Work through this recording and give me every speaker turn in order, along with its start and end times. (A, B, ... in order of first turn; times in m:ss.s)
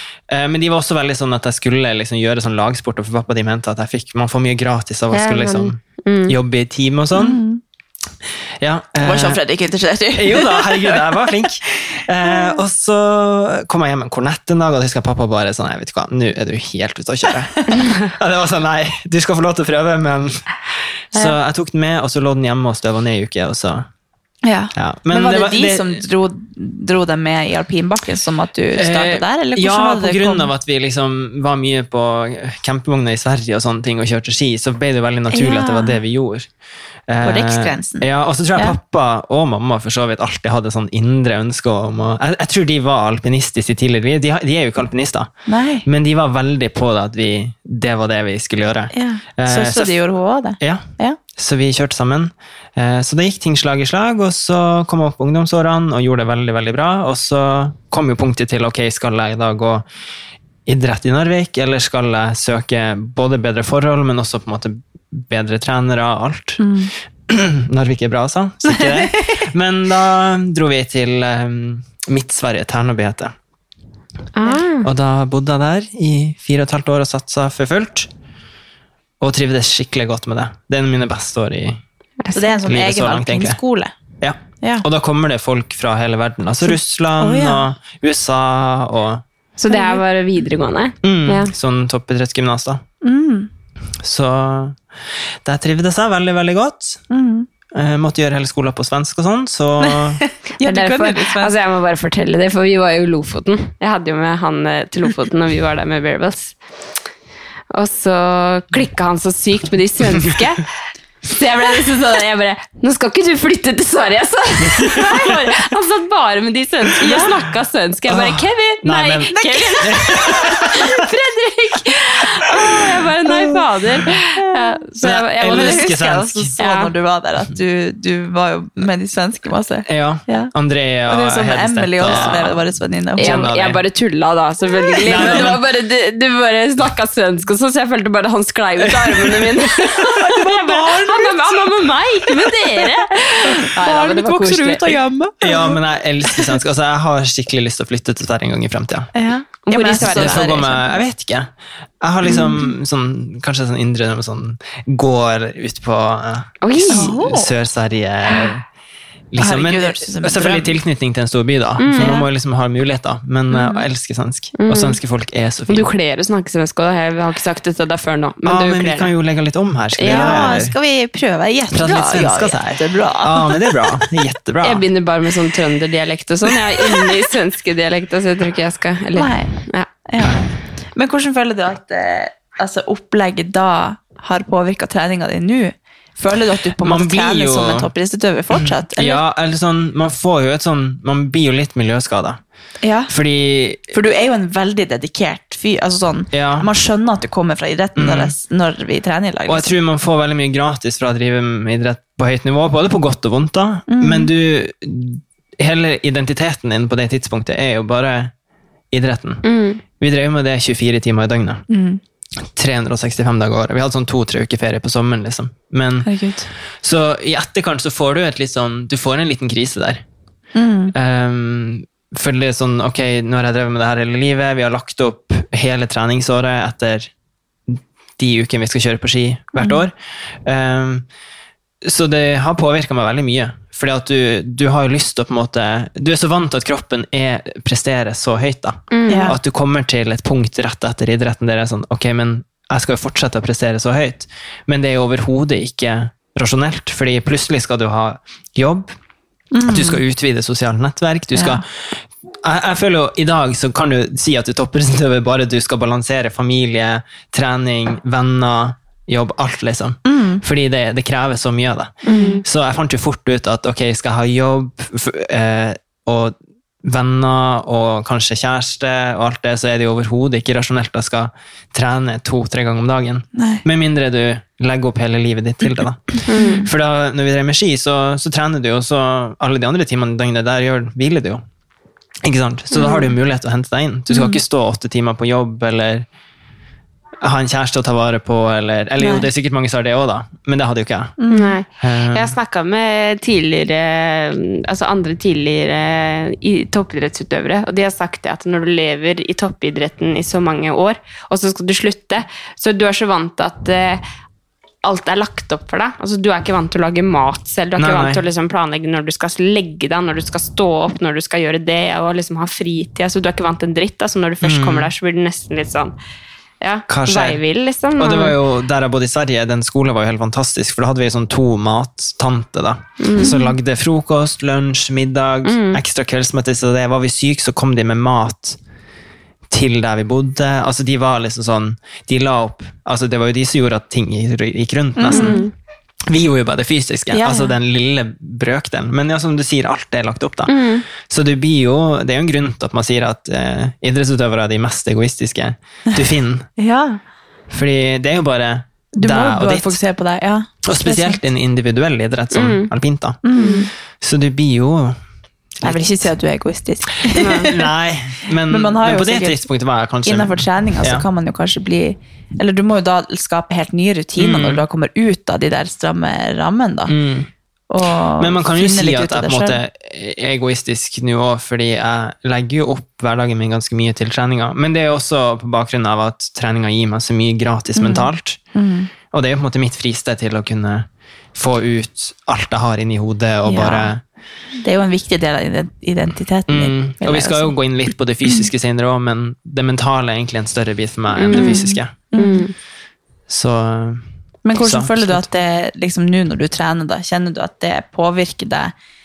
0:00.3-0:07.4 A
0:05.1-0:06.3 B
0:07.2-0:07.6 C
0:08.6-0:09.4 A
0:09.0-0:11.2 C
0:10.1-0:20.6 A
0:21.1-0:23.8 A
0:24.4-0:30.5 C
0:24.7-0:26.0 A
0:28.7-0:36.5 A
0:35.3-0:36.0 C
0:37.1-0:50.0 A
0:37.2-0:38.8 C
0:45.5-0:45.9 C
0:48.9-0:51.2 C
0:50.6-0:59.8 A
1:00.6-1:06.7 A
1:06.6-1:06.9 C
1:07.3-1:13.3 A
1:14.3-1:14.9 B
1:14.8-1:18.1 A
1:19.2-1:21.8 A
1:22.2-1:22.5 B
1:22.3-1:23.9 C
1:22.6-1:23.6 A
1:24.2-1:29.2 A
1:26.6-1:27.6 C
1:29.6-1:31.5 B
1:29.7-1:30.0 C
1:31.0-1:32.8 A
1:33.0-1:33.5 C
1:34.0-1:34.8 A
1:35.4-1:37.0 A
1:37.1-1:37.5 C
1:37.7-1:40.2 A
1:39.8-1:41.5 C
1:40.6-1:46.5 B
1:47.7-1:50.7 B
1:51.2-2:06.0 B
1:54.6-1:55.3 A
1:57.0-1:57.3 C
1:58.1-2:00.9 A
1:59.3-2:00.5 C
2:04.4-2:10.5 C
2:05.0-2:06.5 A
2:06.6-2:06.9 B
2:09.8-2:12.6 A
2:11.0-2:13.5 C
2:12.1-2:12.3 B
2:13.2-2:13.8 A
2:13.2-2:24.9 B
2:15.0-2:15.6 A
2:15.1-2:15.4 C
2:18.8-2:20.0 A
2:20.2-2:21.6 C
2:23.4-2:25.8 C
2:25.4-2:29.1 A
2:29.1-2:31.0 C
2:29.6-2:30.6 B
2:29.8-2:38.6 A
2:32.2-2:32.7 C
2:36.6-2:37.1 B
2:36.9-2:37.5 C
2:39.3-2:45.9 A
2:39.4-2:40.8 C
2:41.8-2:42.2 B
2:42.0-2:42.3 C
2:44.6-2:45.0 B
2:45.7-2:49.1 B
2:48.4-2:50.7 A
2:50.0-2:50.6 B
2:50.0-2:53.6 C
2:51.7-2:54.8 A
2:54.6-2:59.9 B
2:59.1-2:59.5 C
3:00.0-3:00.4 C
3:00.9-3:09.2 C
3:06.8-3:07.9 A
3:08.6-3:12.4 A
3:12.8-3:13.1 C
3:13.1-3:13.8 A
3:13.9-3:19.7 C
3:16.3-3:16.7 A
3:18.0-3:18.3 A
3:19.5-3:28.3 A
3:23.9-3:24.3 C
3:28.9-3:31.6 A
3:29.4-3:29.8 B
3:31.7-3:32.0 C
3:32.5-3:36.1 A
3:36.0-3:36.5 C
3:36.8-3:40.0 A
3:40.5-3:40.9 C
3:40.9-3:47.1 A
3:47.7-3:49.9 A
3:50.4-3:51.0 A
3:51.8-4:08.9 A
3:58.9-3:59.3 B
3:59.1-3:59.4 C
4:09.5-4:10.0 C
4:09.7-4:41.4 A
4:11.3-4:11.6 C
4:20.0-4:20.4 C
4:22.0-4:22.4 B
4:22.1-4:22.4 C
4:33.3-4:33.6 C
4:36.3-4:36.6 B
4:36.4-4:36.7 C
4:42.2-4:46.0 A
4:44.1-4:44.4 C
4:47.2-4:51.2 A
4:49.0-4:49.3 C
4:51.2-4:51.6 C
4:51.3-5:04.0 B
4:51.8-4:52.3 A
5:04.8-5:15.9 B
5:07.8-5:08.2 A
5:14.4-5:14.9 A
5:16.6-5:18.4 B
5:16.9-5:17.4 A
5:18.0-5:28.6 A
5:23.0-5:23.4 B
5:23.2-5:23.5 C
5:25.4-5:25.8 B
5:29.5-5:35.4 A
5:35.0-5:35.4 C
5:35.1-5:35.5 B
5:36.1-5:46.5 A
5:37.1-5:37.5 C
5:40.5-5:40.8 B
5:46.6-5:47.0 C
5:47.5-5:49.8 A
5:49.0-5:51.2 C
5:50.6-5:55.0 A
5:52.3-5:52.7 B
5:53.2-5:53.7 C
5:53.4-5:53.7 B
5:55.6-5:55.9 A
5:55.6-5:57.6 C
5:57.1-6:01.0 A
5:57.2-5:57.5 B
5:58.5-5:59.5 C
6:00.0-6:06.9 C
6:04.2-6:04.6 A
6:06.9-6:07.3 A
6:07.7-6:09.6 C
6:08.2-6:18.4 A
6:17.7-6:18.9 C
6:19.1-6:24.0 A
6:23.4-6:23.9 C
6:24.6-6:27.5 C
6:26.5-6:31.9 A
6:31.1-6:32.5 B
6:31.3-6:32.5 C
6:33.3-6:34.0 A
6:34.4-6:38.7 C
6:34.6-6:35.2 A